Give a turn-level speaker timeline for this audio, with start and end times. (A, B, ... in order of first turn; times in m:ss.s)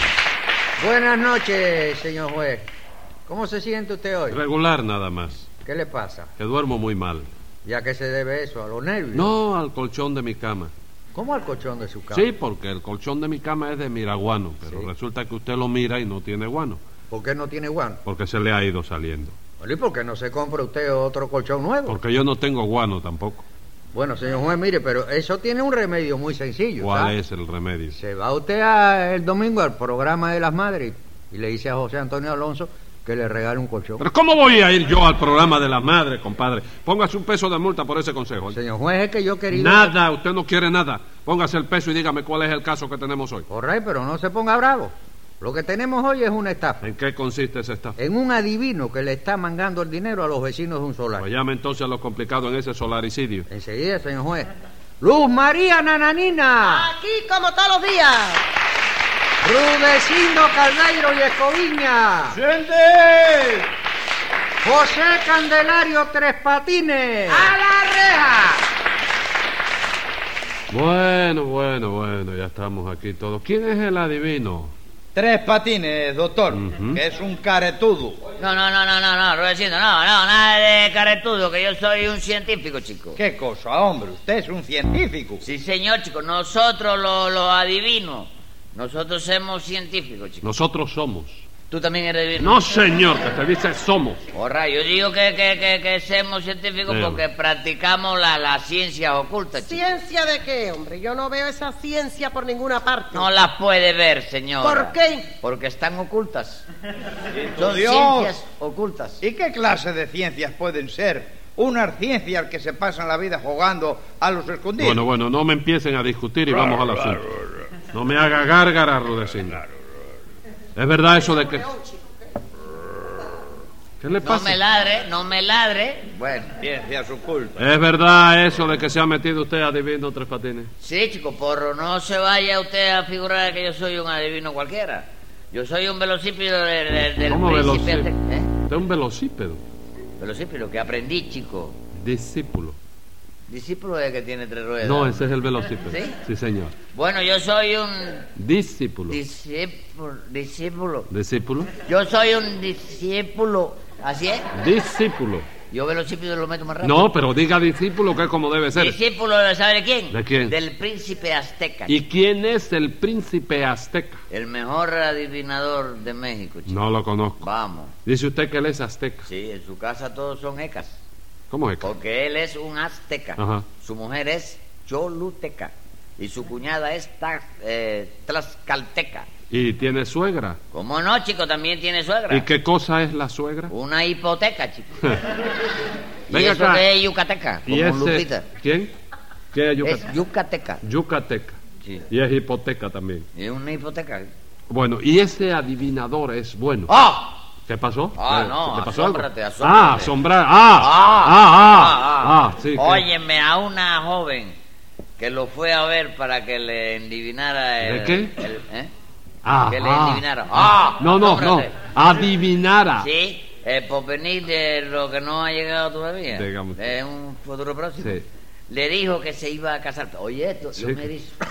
0:00.8-0:02.7 A
0:03.3-0:04.4 A
0:04.3-0:05.5 B
0:05.6-0:06.3 A
0:06.4-0:07.3 B
0:07.6-0:09.3 A
0:09.1-0:10.7 B
0:11.1-0:12.3 A
0:12.1-0:16.8 B
0:17.1-0:18.0 A
0:18.0-0:19.4 B
0:19.6-0:22.0 A
0:21.9-0:23.4 B
0:23.9-0:27.2 A
0:26.8-0:28.0 B
0:27.9-0:34.0 A
0:34.0-0:38.6 B
0:38.5-0:40.0 A
0:39.5-0:43.5 B
0:43.5-0:46.9 A
0:46.8-0:48.0 B
0:48.0-0:51.3 A
0:51.2-0:53.5 B
0:53.5-0:54.5 A
0:55.0-0:56.9 A
0:56.7-0:58.4 C
0:59.4-1:02.4 A
1:02.3-1:03.7 D
1:04.6-1:07.5 A
1:07.7-1:08.2 D
1:10.7-1:14.7 B
1:15.2-1:18.2 D
1:16.5-1:17.0 B
1:18.4-1:23.2 E
1:23.2-1:25.4 D
1:25.4-1:30.5 E
1:30.4-1:31.4 B
1:31.7-1:32.6 E
1:32.4-1:34.2 B
1:34.3-1:39.8 E
1:36.9-1:37.2 B
1:39.6-1:43.3 C
1:43.1-1:46.6 E
1:44.6-1:45.3 C
1:47.4-1:48.4 D
1:47.6-1:49.2 E
1:49.2-1:55.0 D
1:54.8-1:57.3 B
1:56.5-1:57.5 D
1:57.8-1:59.6 B
2:00.8-2:01.8 B
2:04.0-2:04.6 B
2:04.2-2:06.6 E
2:06.6-2:07.6 D
2:07.6-2:10.7 B
2:10.8-2:18.5 E
2:17.2-2:18.1 B
2:18.7-2:19.6 B
2:20.2-2:21.8 E
2:22.0-2:22.8 B
2:23.5-2:25.3 E
2:24.8-2:26.7 B
2:25.9-2:26.2 E
2:26.9-2:28.3 E
2:28.4-2:29.2 B
2:29.1-2:31.1 E
2:31.1-2:31.7 B
2:31.9-2:34.5 E
2:34.5-2:35.5 B
2:35.7-2:37.1 E
2:36.8-2:39.0 B
2:38.8-2:42.0 E
2:40.1-2:40.5 B
2:41.9-2:44.2 B
2:44.3-2:46.8 E
2:46.7-2:47.4 B
2:47.4-2:47.9 E
2:48.0-2:49.3 B
2:49.3-2:51.0 E
2:51.5-2:51.9 B
2:51.8-2:59.3 E
2:53.4-2:53.7 B
2:59.5-3:00.6 B
3:00.7-3:02.5 E
3:02.3-3:03.7 B
3:03.7-3:04.9 E
3:06.3-3:06.9 B
3:06.3-3:08.5 E
3:07.7-3:08.9 B
3:09.5-3:10.1 B
3:09.8-3:10.8 E
3:10.8-3:11.6 B
3:12.1-3:13.3 B
3:13.4-3:14.3 E
3:14.7-3:16.9 B
3:16.9-3:17.4 E
3:17.7-3:23.1 B
3:18.2-3:20.1 E
3:20.8-3:24.6 E
3:25.2-3:28.9 E
3:27.8-3:28.3 B
3:29.4-3:33.1 B
3:29.7-3:31.7 E
3:33.0-3:41.4 E
3:36.3-3:36.8 B
3:40.8-3:41.1 B